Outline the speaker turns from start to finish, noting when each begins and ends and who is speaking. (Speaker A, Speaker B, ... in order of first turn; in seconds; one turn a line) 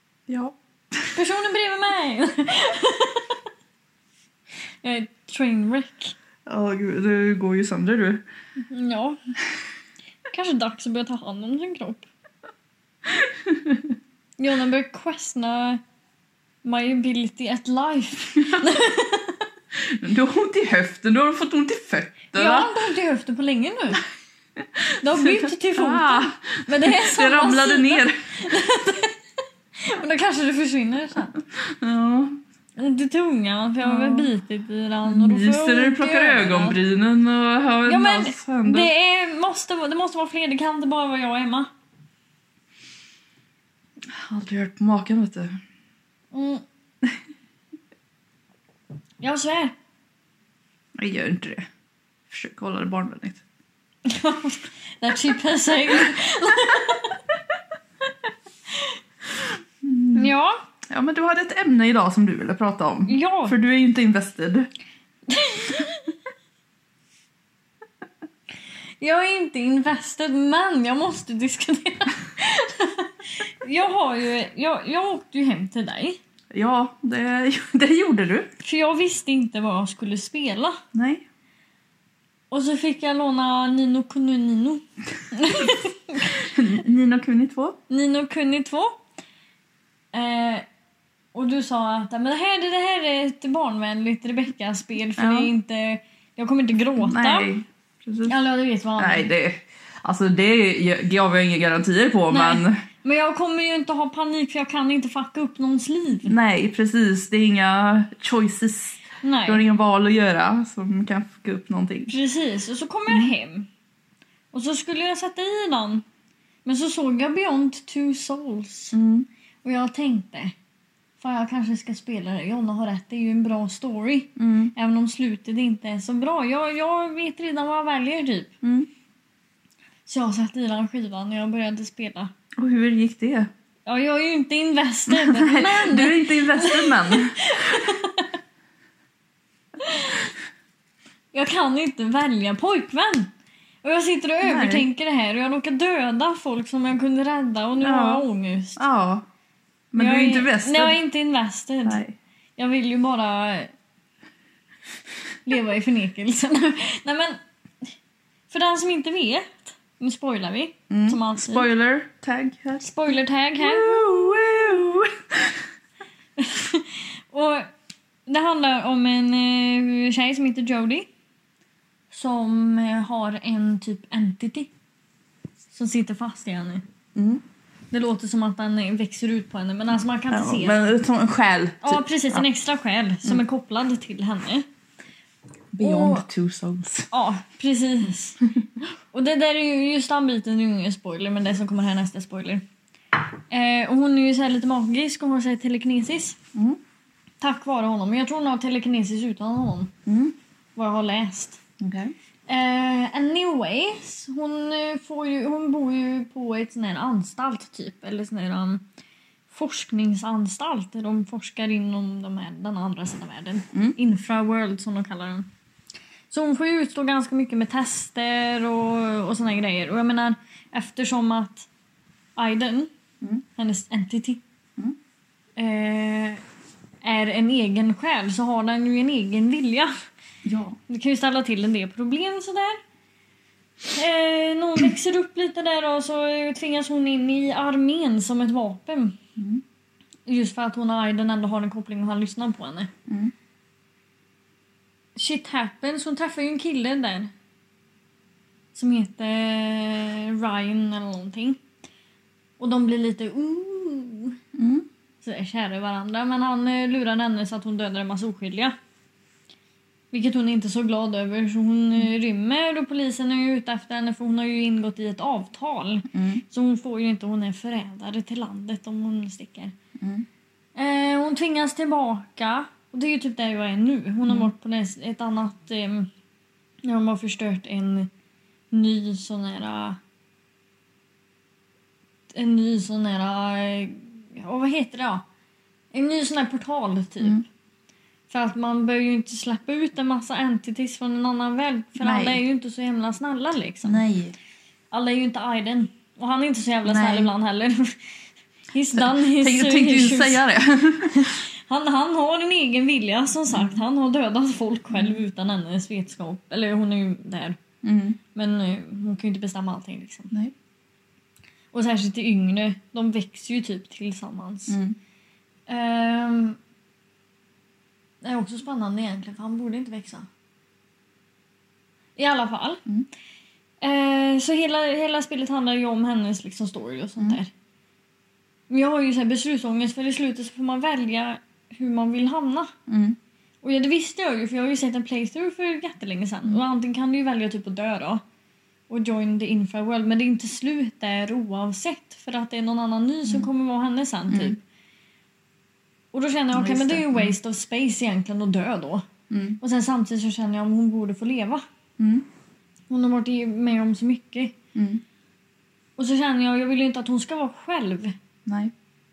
Speaker A: 0.3-1.1
Speaker B: 1.1-3.4
Speaker B: 4.8-6.1
Speaker A: 6.5-8.2
Speaker B: 8.6-9.2
Speaker B: 10.3-12.1
Speaker A: 13.1-13.9
Speaker B: 14.4-15.8
Speaker B: 16.6-19.5
Speaker A: 18.4-18.7
Speaker A: 19.8-22.8
Speaker B: 22.3-24.1
Speaker A: 24.6-28.4
Speaker B: 25.0-29.2
Speaker B: 29.8-31.3
Speaker A: 31.3-32.4
Speaker B: 32.8-36.8
Speaker A: 33.8-34.3
Speaker A: 35.0-38.9
Speaker B: 37.9-41.7
Speaker A: 44.0-45.6
Speaker B: 46.3-46.6
Speaker B: 49.2-49.7
Speaker A: 51.0-51.6
Speaker A: 52.3-53.4
Speaker B: 54.0-57.2
Speaker B: 58.7-59.0
Speaker A: 59.8-60.3
Speaker B: 60.1-60.6
Speaker A: 60.9-64.7
Speaker B: 63.1-63.6
Speaker B: 65.3-66.1
Speaker B: 69.0-76.2
Speaker A: 76.5-78.5
Speaker B: 78.6-80.8
Speaker A: 80.9-81.2
Speaker B: 82.5-86.5
Speaker A: 86.2-87.8
Speaker B: 87.9-89.0
Speaker B: 90.1-90.7
Speaker B: 91.3-97.5
Speaker A: 95.2-95.5
Speaker A: 97.0-98.3
Speaker B: 98.2-99.3
Speaker A: 99.0-102.8
Speaker B: 102.3-106.3
Speaker A: 106.2-112.1
Speaker B: 109.2-109.6
Speaker B: 112.1-113.7
Speaker B: 114.5-116.0
Speaker B: 116.6-119.0
Speaker A: 118.9-119.3
Speaker B: 119.6-120.5
Speaker B: 121.2-128.5
Speaker A: 124.4-124.7
Speaker A: 128.6-128.9
Speaker B: 130.1-132.3
Speaker A: 132.6-133.5
Speaker B: 133.9-138.3
Speaker A: 135.1-137.9
Speaker B: 139.8-140.3
Speaker B: 141.3-143.3
Speaker B: 143.8-148.8
Speaker A: 144.4-144.8
Speaker A: 147.8-148.2
Speaker A: 148.8-149.2
Speaker A: 149.9-151.0
Speaker B: 149.9-152.0
Speaker A: 151.8-152.2
Speaker B: 152.6-153.7
Speaker B: 155.4-157.4
Speaker B: 158.5-161.7
Speaker A: 160.9-165.6
Speaker B: 162.8-164.4
Speaker B: 166.4-167.7
Speaker B: 168.3-171.1
Speaker B: 172.1-174.7
Speaker B: 175.7-176.8
Speaker A: 177.1-177.4
Speaker B: 177.9-180.8
Speaker A: 180.3-182.4
Speaker B: 181.8-184.7
Speaker A: 185.7-187.1
Speaker B: 185.8-186.2
Speaker B: 187.1-188.4
Speaker B: 189.1-192.6
Speaker B: 193.5-196.4
Speaker B: 197.4-199.9
Speaker A: 200.1-200.3
Speaker B: 200.8-201.6
Speaker A: 201.8-202.1
Speaker B: 202.5-208.8
Speaker B: 209.5-215.5
Speaker B: 216.3-221.7
Speaker B: 222.4-222.9
Speaker B: 223.6-224.4
Speaker B: 225.6-226.4
Speaker B: 227.0-229.9
Speaker A: 230.4-230.8
Speaker B: 230.9-232.8
Speaker B: 233.9-239.2
Speaker A: 239.4-239.6
Speaker B: 240.2-242.9
Speaker A: 243.1-243.3
Speaker B: 245.2-247.3
Speaker B: 248.7-251.6
Speaker B: 252.6-254.4
Speaker A: 254.6-254.9
Speaker B: 255.2-258.8
Speaker B: 260.1-269.7
Speaker A: 266.1-266.4
Speaker A: 270.0-270.2
Speaker B: 270.8-276.1
Speaker B: 276.8-278.1
Speaker B: 278.7-280.0
Speaker B: 282.3-285.2
Speaker B: 285.9-287.4
Speaker B: 288.3-294.0
Speaker A: 292.0-292.4
Speaker A: 293.8-294.3
Speaker B: 294.9-298.0
Speaker A: 296.8-297.3
Speaker B: 298.7-300.4
Speaker A: 298.9-301.4
Speaker B: 301.6-307.6
Speaker A: 303.5-303.8
Speaker A: 304.9-305.2
Speaker A: 307.8-308.2
Speaker B: 308.3-310.3
Speaker B: 311.7-314.8
Speaker A: 314.7-314.9
Speaker B: 315.7-316.6
Speaker B: 318.2-320.3
Speaker B: 322.2-322.8
Speaker B: 323.8-327.5
Speaker B: 328.7-332.7
Speaker A: 332.9-333.2
Speaker B: 333.6-338.2
Speaker B: 338.9-344.6
Speaker A: 344.3-344.6
Speaker B: 346.1-349.1
Speaker A: 346.5-347.3
Speaker A: 349.3-349.6
Speaker B: 349.6-351.6
Speaker A: 352.0-352.2
Speaker B: 352.9-354.5
Speaker A: 354.7-355.0
Speaker B: 356.0-358.1
Speaker A: 358.4-358.7